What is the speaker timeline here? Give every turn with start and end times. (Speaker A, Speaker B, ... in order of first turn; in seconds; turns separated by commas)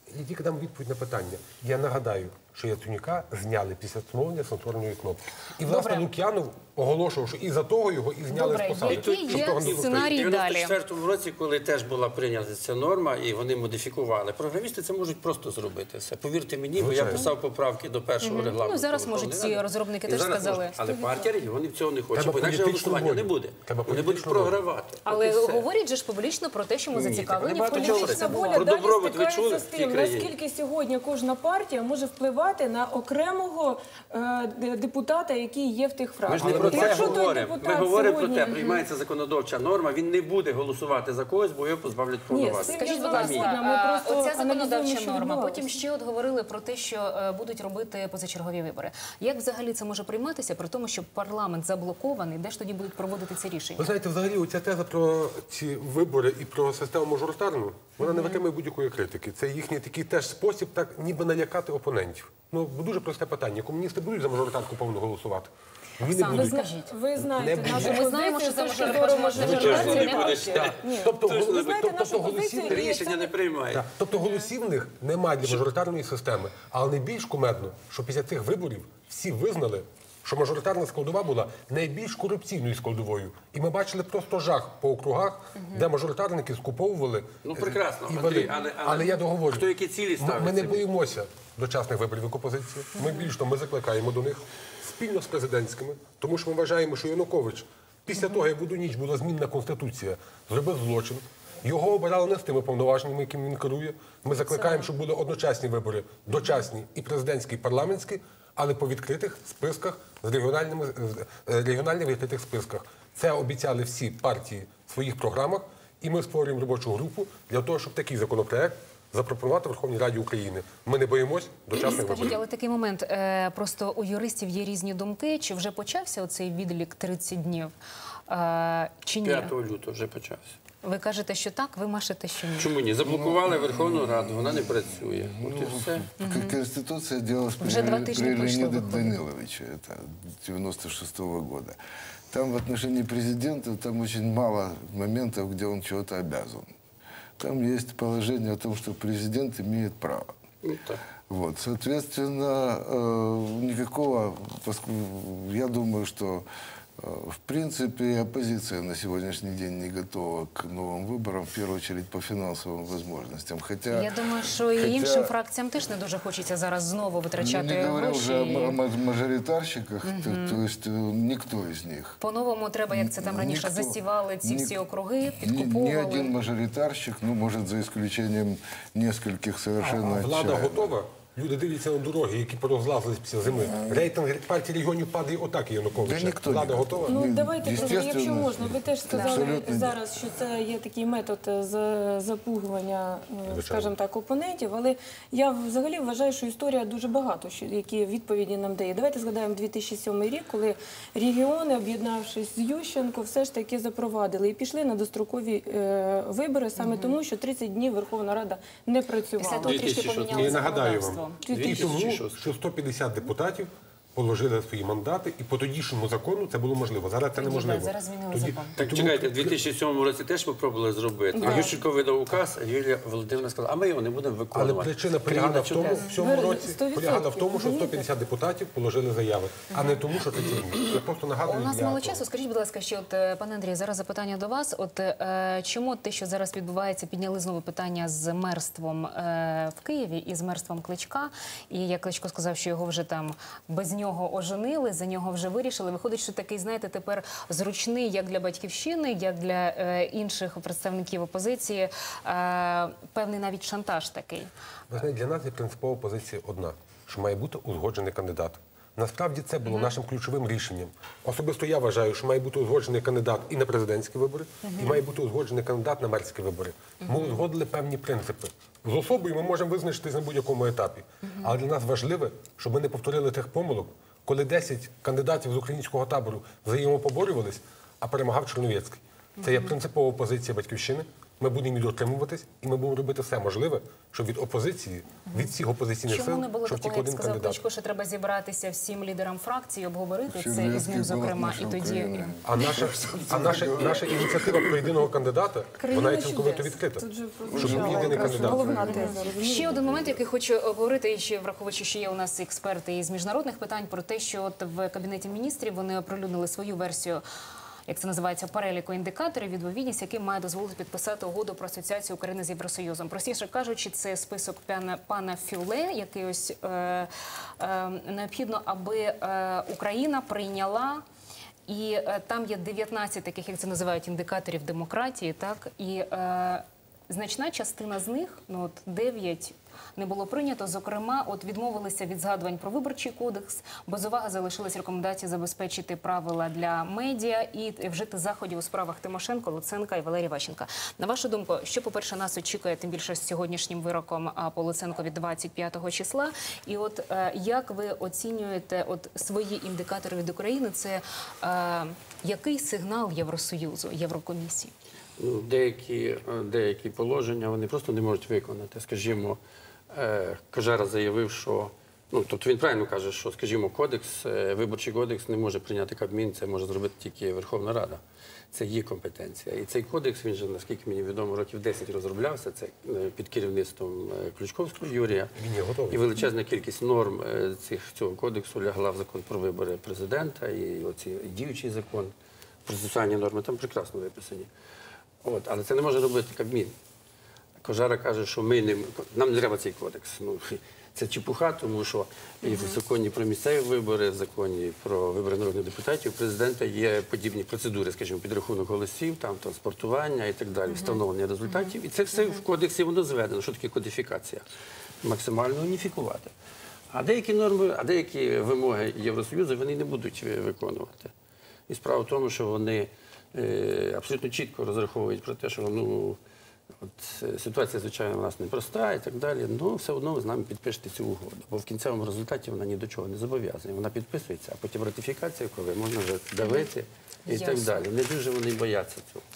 Speaker A: 0.1-10.0, Speaker B: 5.6-6.0, Speaker B: 8.3-10.7, Speaker C: 8.9-25.6, Speaker A: 16.8-17.3, Speaker B: 18.2-20.8, Speaker D: 20.9-21.1, Speaker A: 22.1-24.6, Speaker B: 25.1-28.7, Speaker C: 27.0-30.3, Speaker D: 27.7-38.5, Speaker C: 36.3-43.5, Speaker A: 36.3-37.2, Speaker B: 38.4-38.8, Speaker D: 42.3-45.8, Speaker B: 42.6-53.9, Speaker A: 53.8-66.6, Speaker B: 58.0-58.4, Speaker B: 66.0-66.9, Speaker D: 66.3-73.3, Speaker A: 67.2-68.2, Speaker B: 67.6-70.7, Speaker A: 69.3-73.0, Speaker C: 69.3-71.8, Speaker C: 72.6-73.8, Speaker A: 73.7-122.4, Speaker B: 74.1-74.5, Speaker C: 87.4-90.8, Speaker B: 104.4-104.9, Speaker B: 121.7-127.7, Speaker B: 128.3-129.5, Speaker C: 129.2-130.6, Speaker B: 130.8-132.7, Speaker C: 132.6-136.1, Speaker E: 133.0-141.8, Speaker B: 136.2-136.6, Speaker B: 137.6-139.2, Speaker E: 142.3-146.7, Speaker E: 147.4-150.3, Speaker C: 150.6-151.0, Speaker E: 151.3-156.4, Speaker E: 157.0-164.1, Speaker B: 163.9-168.8, Speaker E: 164.7-165.3, Speaker E: 167.4-172.2, Speaker B: 170.0-170.6, Speaker B: 172.2-176.3, Speaker E: 172.9-180.9, Speaker A: 179.8-187.2, Speaker E: 186.0-190.0, Speaker D: 187.1-210.8, Speaker B: 189.1-189.5, Speaker A: 193.5-193.9, Speaker B: 206.8-207.2, Speaker B: 209.4-211.4, Speaker C: 209.6-210.6, Speaker A: 210.2-219.6, Speaker C: 211.4-212.5, Speaker D: 211.4-212.0, Speaker B: 217.3-218.8, Speaker C: 218.8-226.1, Speaker D: 221.3-221.8, Speaker A: 224.5-232.2, Speaker D: 226.1-228.1, Speaker B: 231.4-254.5, Speaker A: 254.9-287.6, Speaker B: 259.7-259.9, Speaker B: 264.6-265.0, Speaker B: 267.0-267.4, Speaker B: 279.4-279.7, Speaker B: 286.1-292.3, Speaker E: 290.3-295.0, Speaker A: 292.4-298.8, Speaker D: 295.8-299.8, Speaker E: 297.5-300.1, Speaker B: 297.9-307.2, Speaker B: 307.9-321.0, Speaker B: 321.7-354.7, Speaker C: 355.2-359.4, Speaker C: 359.9-368.0, Speaker C: 368.5-375.4, Speaker A: 375.4-376.1, Speaker C: 375.9-382.1, Speaker C: 382.6-384.5, Speaker C: 385.2-386.7, Speaker C: 387.6-404.4, Speaker B: 392.4-392.8, Speaker B: 400.7-401.7, Speaker C: 405.0-406.3, Speaker C: 406.9-411.1, Speaker C: 411.7-416.2, Speaker C: 416.8-429.2, Speaker B: 426.4-426.7, Speaker B: 427.3-427.8